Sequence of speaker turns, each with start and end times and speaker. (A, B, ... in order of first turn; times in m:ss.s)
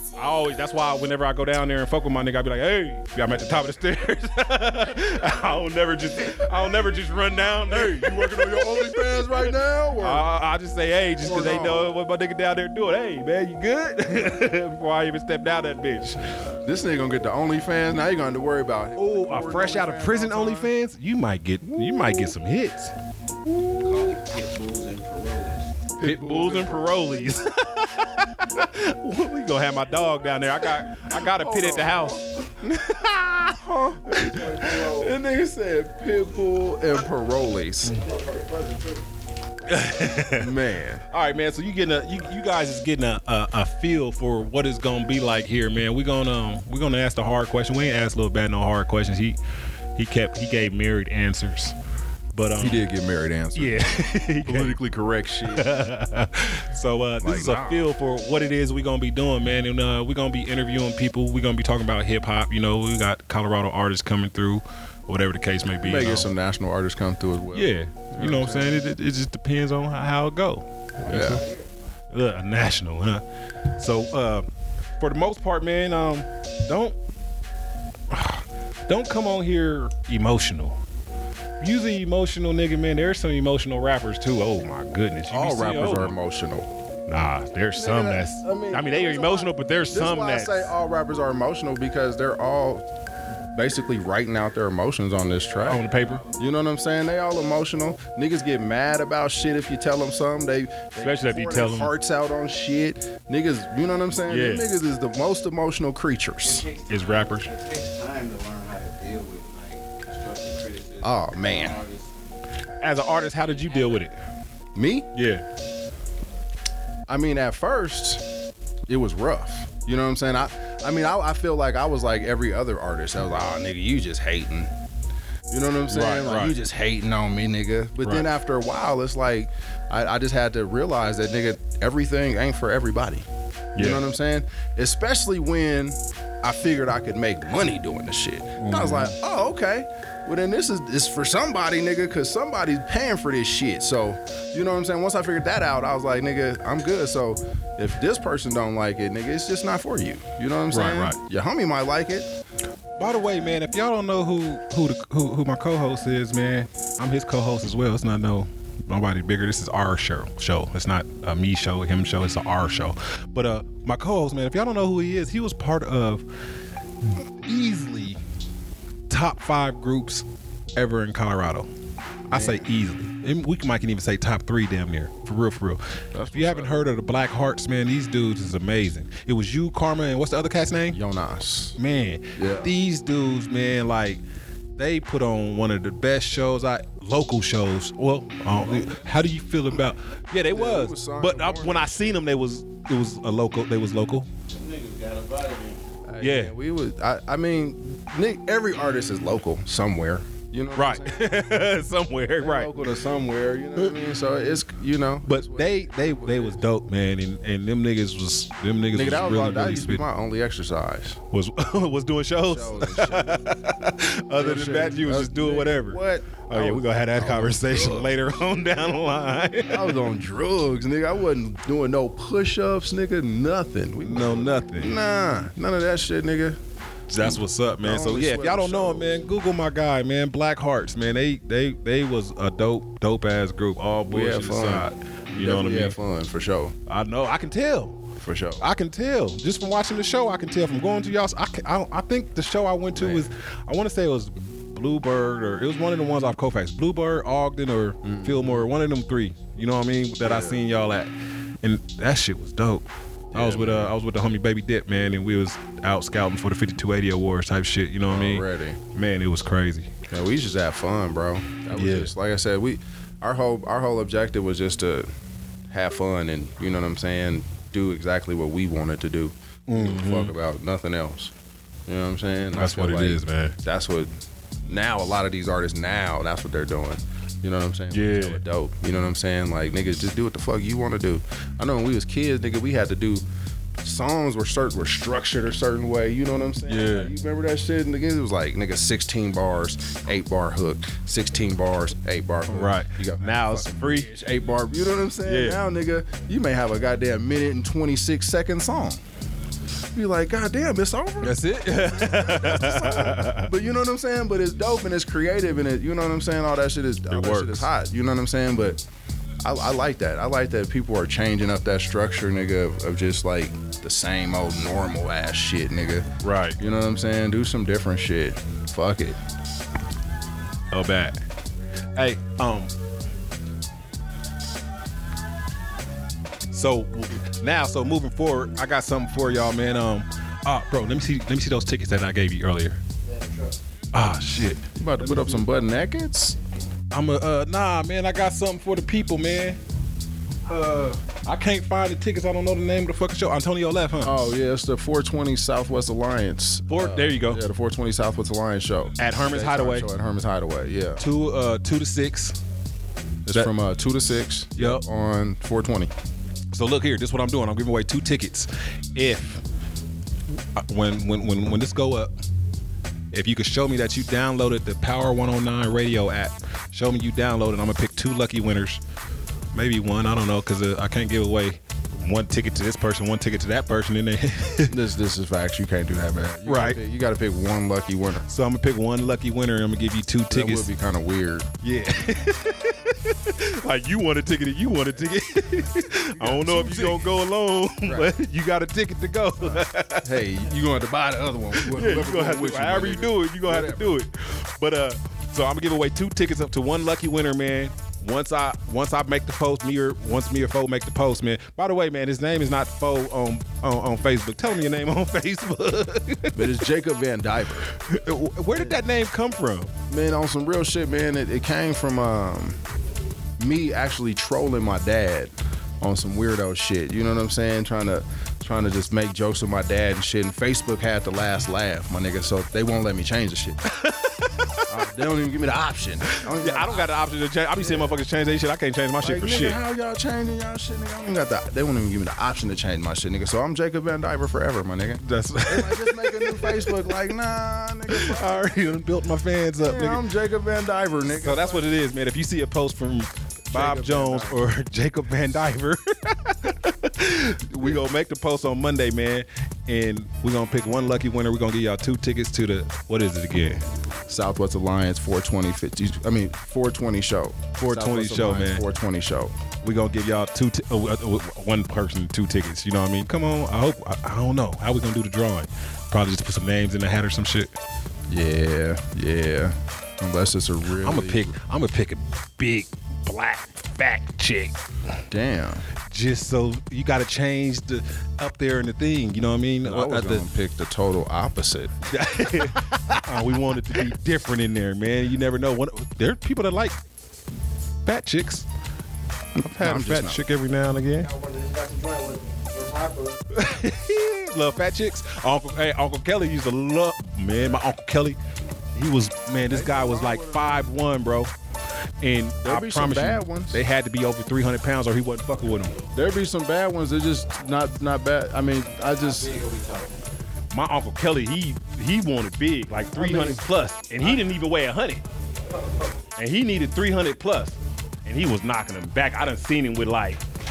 0:00.1-0:16.3 A
0:07.7-0:10.2 B
0:11.2-0:11.9 B
0:16.6-0:20.7 B
0:19.0-0:22.9 A
0:21.6-0:22.1 B
0:23.5-0:23.9 B
0:23.8-0:25.7 C
0:26.0-0:27.3 B
0:26.0-0:33.6 A
0:31.1-0:32.9 B
0:33.5-0:38.0 B
0:34.1-0:35.2 D
0:37.9-0:39.0 D
0:39.6-0:40.5 A
0:40.4-0:41.0 B
0:41.1-0:49.4 A
0:50.0-0:51.7 A
0:52.3-0:52.8 A
0:52.6-0:53.8 B
0:53.5-0:54.8 A
0:54.4-0:55.7 B
0:55.5-1:06.3 A
0:57.2-0:57.9 B
1:05.8-1:08.8 B
1:07.5-1:11.4 A
1:11.0-1:11.4 B
1:11.1-1:11.6 D
1:12.1-1:13.2 A
1:13.7-1:14.5 A
1:15.0-1:17.0 A
1:18.1-1:20.8 A
1:21.6-1:26.1 A
1:25.3-1:26.7 B
1:27.1-1:30.7 A
1:27.7-1:32.8 B
1:33.5-1:46.7 B
1:35.3-1:36.4 C
1:35.6-1:36.2 A
1:41.0-1:41.9 A
1:44.3-1:44.7 A
1:46.4-1:52.1 C
1:46.9-1:47.5 A
1:51.0-1:51.8 B
1:52.8-1:54.1 A
1:53.2-1:54.1 C
1:54.7-1:55.1 B
1:55.1-1:55.4 A
1:57.1-1:58.2 B
1:58.9-2:04.7 B
2:05.5-2:32.3 B
2:05.9-2:06.6 A
2:08.0-2:08.3 A
2:13.8-2:14.0 A
2:18.6-2:19.1 A
2:30.7-2:31.2 A
2:33.0-2:46.2 A
2:47.1-2:48.2 A
2:49.1-2:50.2 A
2:50.8-2:51.7 A
2:52.3-2:52.6 B
2:52.3-3:01.0 A
2:56.1-2:56.9 B
3:00.9-3:01.8 B
3:01.8-3:04.2 A
3:02.4-3:02.7 B
3:04.8-3:14.3 A
3:10.4-3:12.2 B
3:14.5-3:15.8 C
3:16.1-3:21.3 B
3:16.2-3:16.5 A
3:20.8-3:22.8 A
3:22.4-3:26.6 B
3:25.2-3:30.0 A
3:28.9-3:31.2 B
3:31.3-3:39.9 A
3:32.4-3:33.5 B
3:34.3-3:38.2 B
3:39.7-3:46.6 B
3:44.0-3:44.9 A
3:47.1-3:56.0 A
3:47.2-3:49.1 B
3:54.0-3:56.8 B
3:56.9-3:58.0 A
3:58.2-3:58.7 B
3:58.6-4:19.9 A
4:02.9-4:03.3 B
4:08.0-4:08.6 B
4:10.2-4:10.6 B
4:13.3-4:13.9 B
4:18.1-4:18.8 B
4:20.1-4:25.1 B
4:21.7-4:22.1 A
4:25.7-4:31.3 B
4:29.7-4:30.3 A
4:31.9-4:34.1 B
4:32.5-4:33.6 A
4:34.7-4:43.2 B
4:37.9-4:38.4 A
4:43.8-4:59.0 B
4:46.7-4:47.1 A
4:52.5-4:54.1 A
4:55.2-4:55.6 A
4:59.9-5:08.8 B
5:01.2-5:03.5 A
5:07.1-5:07.7 A
5:09.4-5:19.2 B
5:16.2-5:16.6 A
5:20.7-5:21.2 A
5:22.0-5:22.7 A
5:26.5-5:32.8 A
5:33.0-5:33.6 D
5:33.9-5:35.5 A
5:34.7-5:36.4 B
5:36.9-5:39.6 A
5:40.5-5:44.2 A
5:44.0-5:51.0 B
5:46.7-5:47.4 A
5:49.0-5:49.9 A
5:51.0-5:52.4 A
5:53.2-5:55.9 B
5:54.6-5:54.8 A
5:56.5-5:59.4 A
6:00.5-6:02.1 A
6:03.1-6:08.8 A
6:09.5-6:14.8 A
6:14.7-6:18.2 B
6:16.4-6:16.8 A
6:18.2-6:20.7 A
6:20.3-6:21.5 B
6:21.6-6:30.1 A
6:26.1-6:27.1 B
6:27.8-6:28.1 B
6:29.4-6:34.0 B
6:31.5-6:46.6 A
6:46.3-6:47.7 B
6:47.7-6:49.7 A
6:48.5-6:48.8 B
6:49.9-6:52.6 B
6:53.4-7:03.6 B
7:03.7-7:04.6 A
7:04.7-7:06.9 B
7:06.1-7:09.6 A
7:07.6-7:08.0 B
7:09.0-7:18.5 B
7:15.0-7:16.9 A
7:17.9-7:20.0 A
7:19.6-7:21.7 B
7:21.1-7:33.6 A
7:23.5-7:24.4 B
7:34.1-7:39.3 B
7:37.6-7:38.6 A
7:39.6-7:47.5 A
7:48.1-7:51.3 B
7:50.8-7:54.6 A
7:55.1-7:55.7 B
7:55.8-8:00.2 A
7:59.6-8:02.9 B
8:01.9-8:06.8 A
8:07.8-8:08.4 A
8:09.4-8:10.2 B
8:09.5-8:11.1 A
8:11.0-8:13.2 D
8:13.3-8:18.2 A
8:18.7-8:21.3 A
8:19.4-8:20.6 B
8:22.0-8:25.8 A
8:22.4-8:23.6 B
8:25.6-8:25.9 C
8:25.9-8:29.4 B
8:28.8-8:30.0 C
8:30.5-8:35.0 A
8:32.9-8:33.4 B
8:36.2-8:40.2 A